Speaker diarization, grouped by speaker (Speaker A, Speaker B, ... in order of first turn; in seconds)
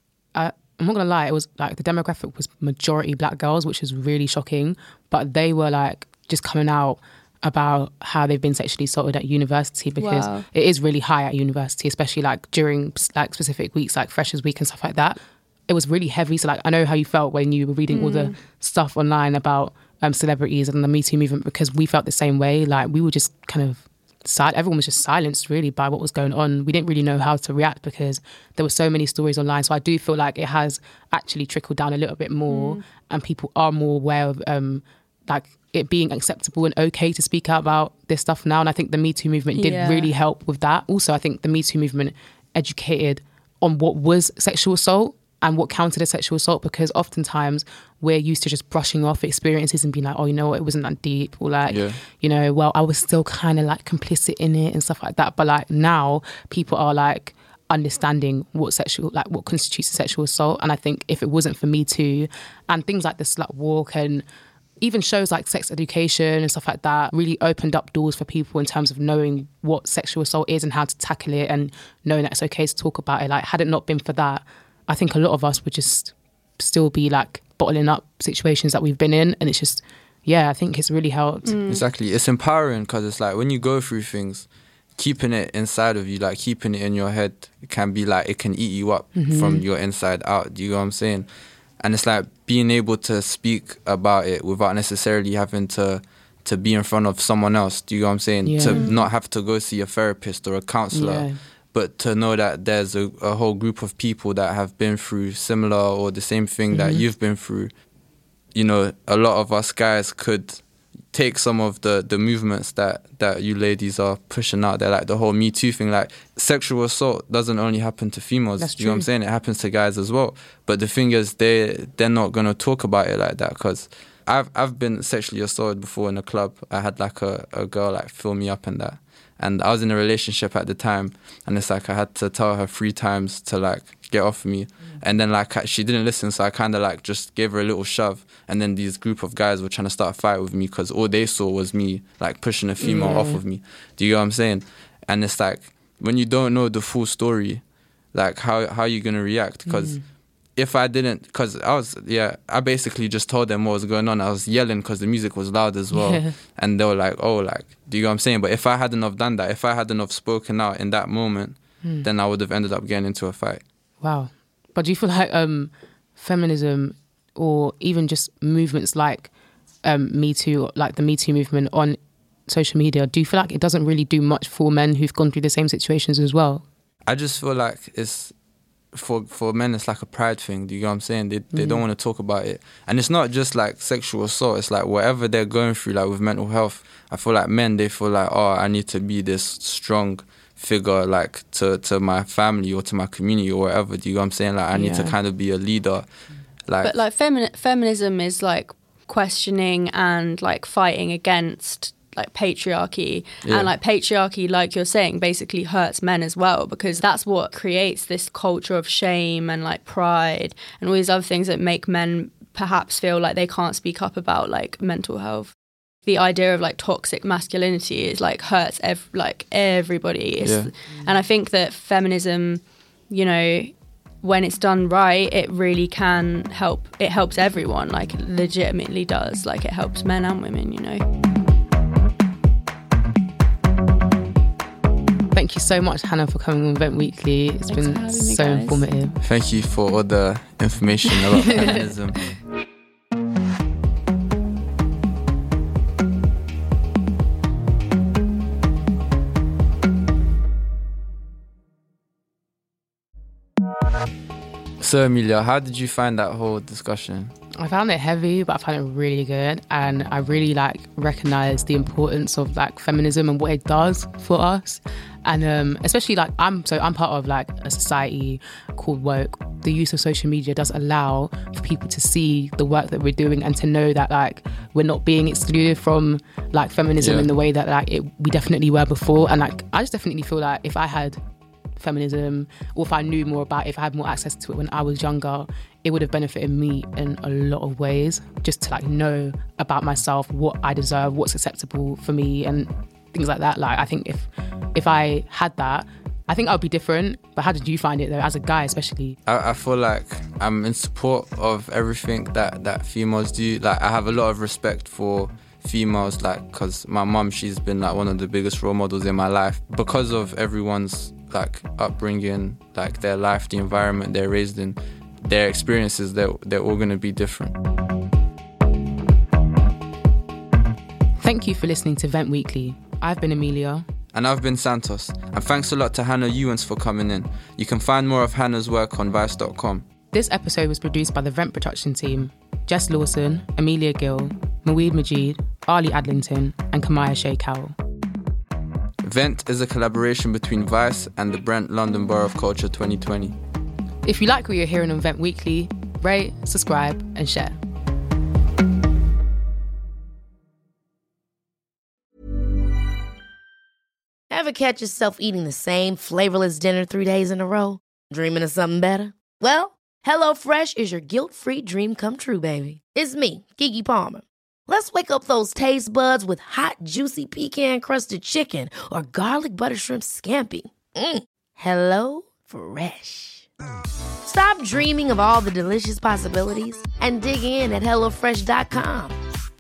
Speaker A: 0.3-64.2, 64.8-81.6, 89.2-89.6, 98.4-98.8, 100.9-101.4, 106.7-107.0, 118.6-119.1, 142.8-143.4, 149.7-150.0, 155.9-156.3, 161.8-162.1, 164.0-169.3, 169.8-176.6, 181.5-181.8, 194.7-195.2, 235.3-239.2, 257.6-281.2, 281.8-299.2, 321.2-323.9, 330.1-337.8, 344.0-347.6
Speaker B: 10.0-10.4, 17.9-18.4, 32.5-32.8, 39.5-40.1, 81.5-81.8, 98.7-99.0, 196.8-215.5, 216.1-231.0, 237.7-238.9
Speaker C: 51.7-52.0, 81.7-84.5, 85.0-91.3, 91.8-107.7, 108.5-110.6, 111.1-150.0, 150.6-163.6, 177.1-178.3, 178.9-196.1, 196.7-196.9, 203.4-203.7, 220.4-220.7, 239.2-242.2, 254.8-257.3, 277.0-277.3, 299.3-317.5, 324.1-329.8, 339.0-343.4
Speaker D: 354.3-373.5, 374.2-379.2